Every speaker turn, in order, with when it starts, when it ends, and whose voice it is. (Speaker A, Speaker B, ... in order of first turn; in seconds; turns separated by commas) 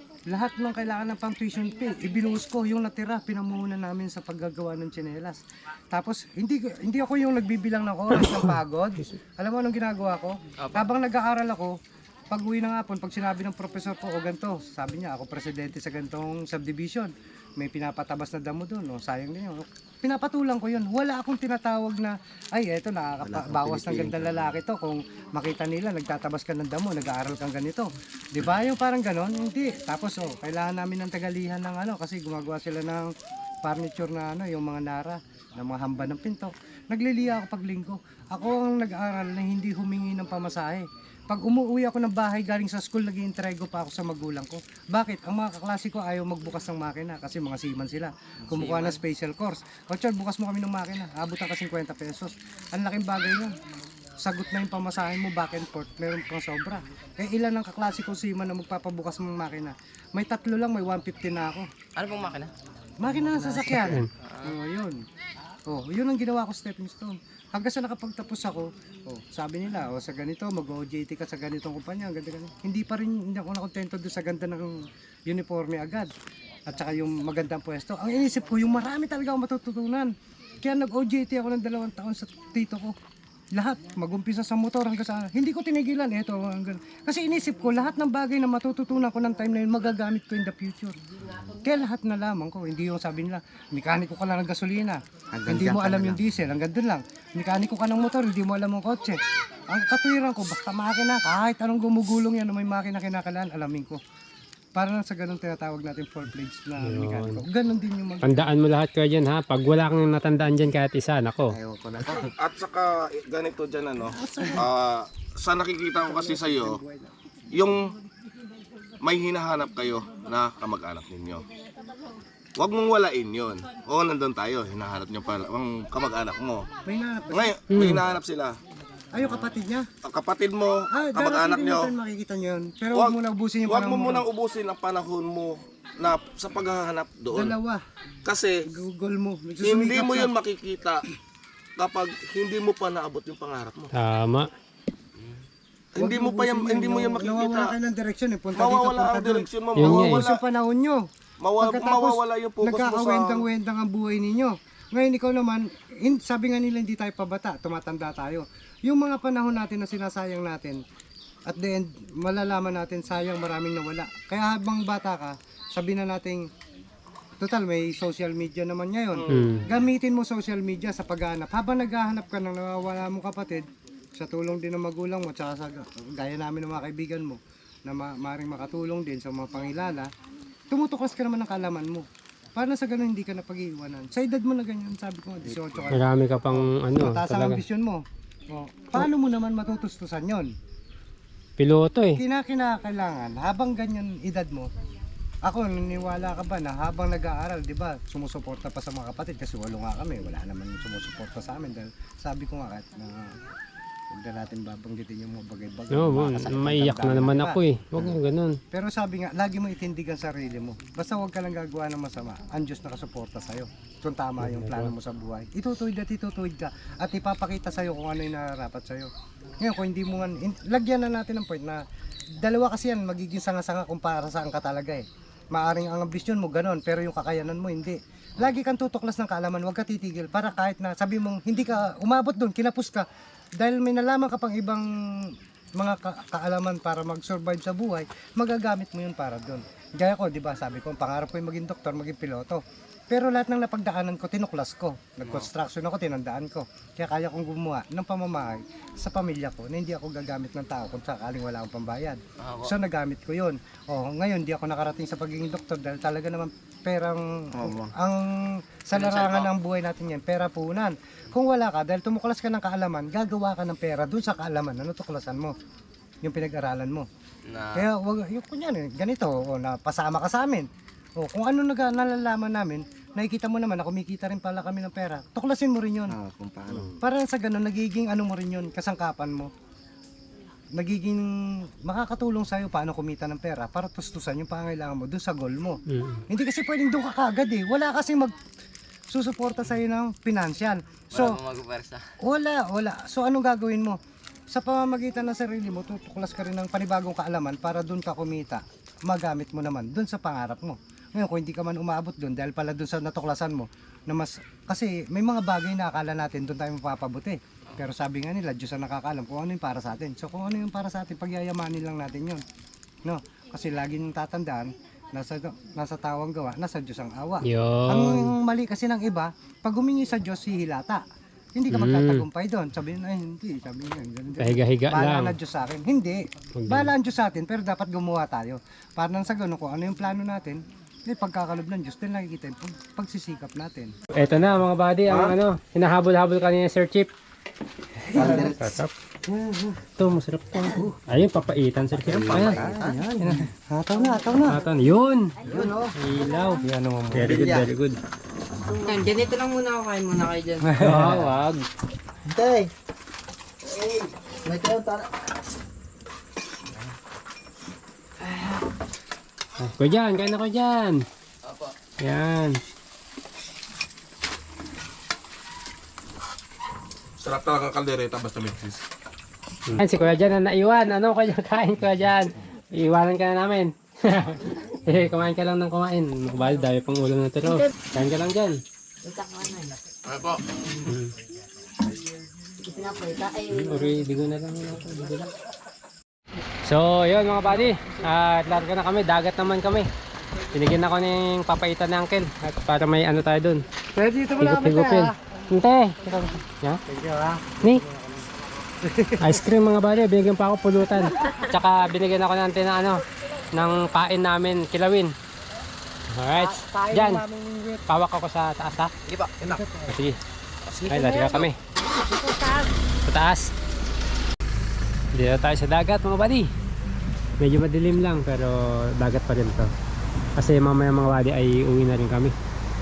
Speaker A: 0.3-11.8, Speaker B: 10.6-10.9, Speaker A: 12.3-33.1, Speaker C: 23.2-24.5, Speaker A: 33.6-53.5, Speaker B: 48.5-49.0, Speaker A: 54.2-61.7, Speaker B: 62.0-62.5, Speaker A: 63.0-65.0, Speaker C: 63.2-64.0, Speaker D: 63.8-64.1, Speaker B: 64.2-64.6, Speaker A: 65.7-76.1, Speaker A: 76.7-80.1, Speaker A: 80.6-83.0, Speaker A: 83.5-91.0, Speaker A: 91.6-99.2, Speaker C: 95.3-96.2, Speaker A: 99.7-104.0, Speaker A: 104.7-108.3, Speaker D: 106.8-107.4, Speaker D: 108.2-111.5, Speaker C: 111.5-112.3, Speaker E: 112.4-116.8, Speaker A: 114.2-114.6, Speaker A: 116.0-117.1, Speaker E: 117.5-117.9, Speaker E: 119.0-121.4, Speaker E: 122.6-126.7, Speaker A: 126.8-127.5, Speaker E: 127.3-128.6, Speaker D: 127.7-128.0, Speaker A: 129.1-129.9, Speaker E: 130.0-131.9, Speaker A: 130.9-134.2, Speaker E: 132.9-137.6, Speaker A: 137.3-137.8, Speaker E: 138.2-138.7, Speaker A: 138.6-140.3, Speaker E: 139.6-141.0, Speaker E: 141.8-143.9, Speaker D: 143.9-144.5, Speaker E: 145.9-147.7, Speaker A: 146.0-151.1, Speaker E: 148.5-150.4, Speaker D: 149.8-150.2, Speaker E: 151.4-153.4, Speaker A: 151.6-160.8, Speaker A: 161.5-166.5, Speaker A: 167.4-180.1, Speaker E: 169.2-169.7, Speaker D: 169.3-169.7, Speaker A: 180.7-190.5, Speaker C: 185.4-185.9, Speaker D: 185.9-187.6, Speaker D: 191.6-192.2, Speaker A: 192.2-194.7, Speaker A: 195.4-203.3, Speaker A: 204.1-208.1, Speaker D: 205.9-208.6, Speaker A: 208.7-219.1, Speaker D: 214.4-214.9, Speaker A: 219.6-221.8, Speaker A: 222.4-233.1, Speaker A: 233.6-265.5, Speaker B: 252.4-252.7, Speaker C: 257.5-257.9, Speaker B: 258.9-259.5, Speaker A: 266.2-267.1, Speaker B: 267.5-267.9, Speaker A: 267.7-276.1, Speaker C: 276.1-277.0, Speaker A: 277.0-279.5, Speaker A: 280.7-288.3, Speaker D: 285.9-286.2, Speaker A: 289.1-291.4, Speaker B: 291.1-292.0, Speaker A: 292.2-294.0, Speaker A: 294.5-312.4, Speaker A: 313.0-321.0, Speaker D: 317.4-318.3, Speaker A: 321.5-333.9, Speaker D: 321.7-322.2, Speaker D: 324.4-325.3, Speaker D: 326.6-326.9, Speaker D: 334.1-337.1, Speaker C: 335.1-335.4, Speaker C: 338.1-338.7, Speaker D: 338.1-338.9, Speaker A: 338.1-338.5, Speaker A: 339.2-339.8, Speaker D: 339.9-342.6, Speaker C: 342.0-343.0, Speaker A: 342.3-344.6, Speaker D: 344.4-345.4, Speaker A: 345.4-345.9, Speaker C: 345.5-345.7, Speaker D: 345.9-348.0, Speaker A: 346.6-347.5, Speaker C: 347.2-347.7, Speaker B: 348.7-351.2, Speaker A: 350.6-351.2, Speaker D: 350.8-351.7, Speaker C: 352.2-352.7, Speaker C: 353.6-355.1, Speaker D: 359.6-361.0, Speaker B: 361.4-361.7, Speaker D: 362.0-362.6, Speaker E: 367.2-368.8, Speaker D: 369.7-378.6, Speaker B: 380.0-380.4, Speaker D: 380.8-381.1, Speaker D: 383.4-385.3, Speaker D: 386.6-389.9, Speaker D: 390.5-393.6, Speaker A: 393.9-395.1, Speaker D: 394.4-396.8, Speaker A: 396.9-398.2, Speaker A: 398.8-399.4, Speaker D: 399.2-403.0, Speaker D: 403.5-405.1, Speaker D: 406.1-407.2, Speaker A: 406.5-407.8, Speaker D: 407.9-408.9, Speaker B: 409.1-409.6, Speaker A: 409.4-409.9, Speaker D: 409.9-410.2, Speaker B: 410.6-411.5, Speaker D: 410.9-411.6, Speaker A: 412.1-412.6, Speaker D: 413.1-413.5, Speaker D: 415.1-416.5, Speaker D: 417.4-419.7, Speaker D: 420.4-422.3